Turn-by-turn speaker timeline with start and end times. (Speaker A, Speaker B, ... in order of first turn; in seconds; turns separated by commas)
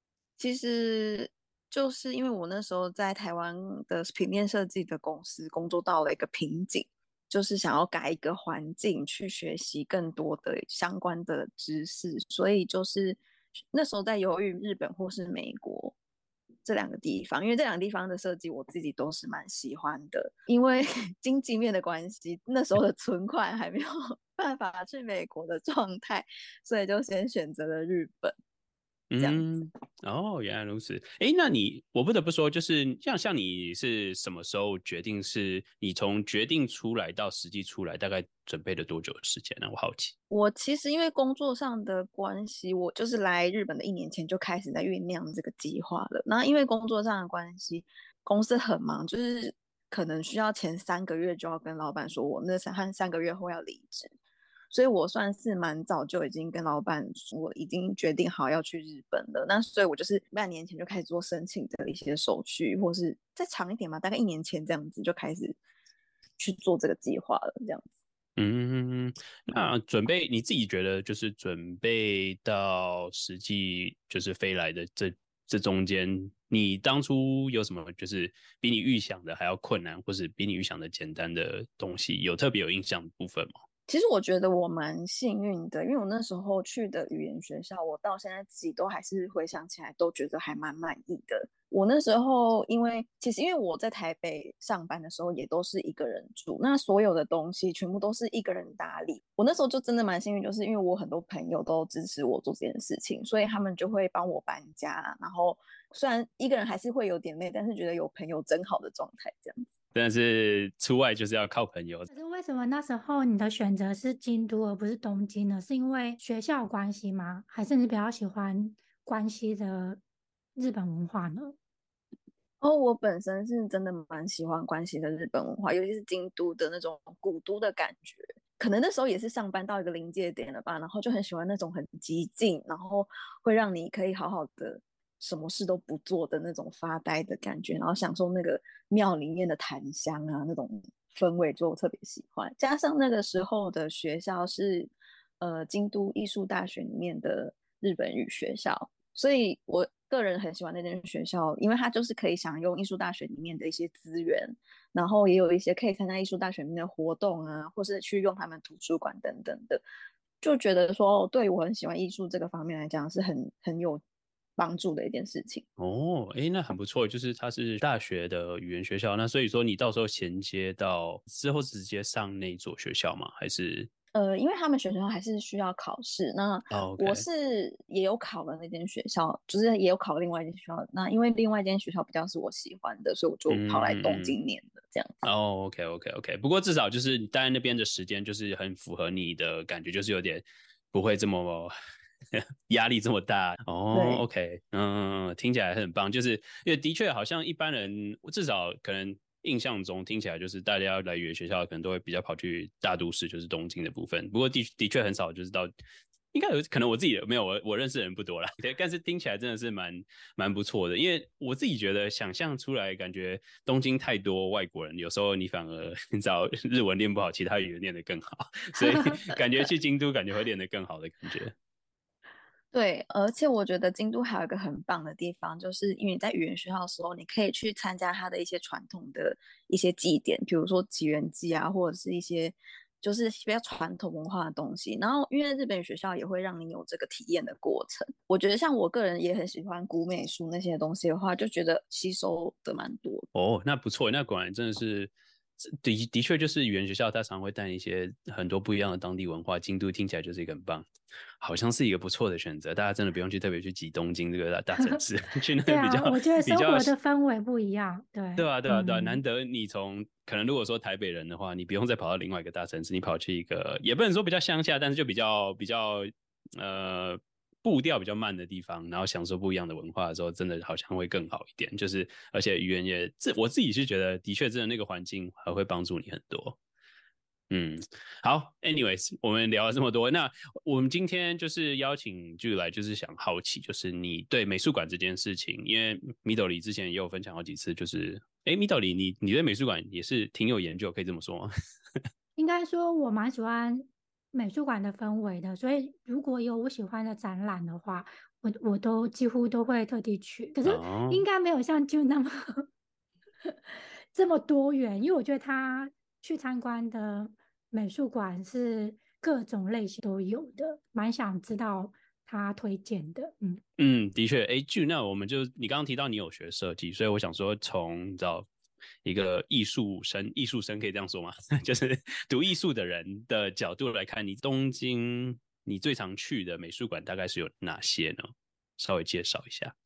Speaker A: 0.4-13.2, Speaker A: 13.7-15.9, Speaker A: 16.6-28.3, Speaker B: 29.1-40.1, Speaker A: 29.2-29.7, Speaker A: 40.3-54.1, Speaker A: 54.7-65.6, Speaker A: 66.4-67.9, Speaker B: 68.4-83.5, Speaker A: 83.9-109.8, Speaker B: 109.9-112.1, Speaker C: 112.1-120.0, Speaker C: 120.5-121.5, Speaker A: 122.6-159.8, Speaker A: 160.4-164.0, Speaker A: 164.6-165.6, Speaker B: 165.8-173.9, Speaker A: 174.1-185.2, Speaker B: 176.7-177.2, Speaker B: 183.5-184.3, Speaker B: 185.2-191.7, Speaker B: 192.7-205.7, Speaker A: 193.9-194.2, Speaker B: 206.3-221.5, Speaker A: 222.7-243.3, Speaker B: 243.3-245.1, Speaker B: 245.6-250.9, Speaker B: 251.4-256.9, Speaker C: 255.6-259.2, Speaker B: 258.4-266.1, Speaker B: 266.6-276.6, Speaker B: 277.5-291.5, Speaker C: 292.4-302.7, Speaker B: 300.6-301.2, Speaker C: 303.4-313.6, Speaker B: 313.8-318.5, Speaker B: 319.0-328.3, Speaker B: 328.8-329.7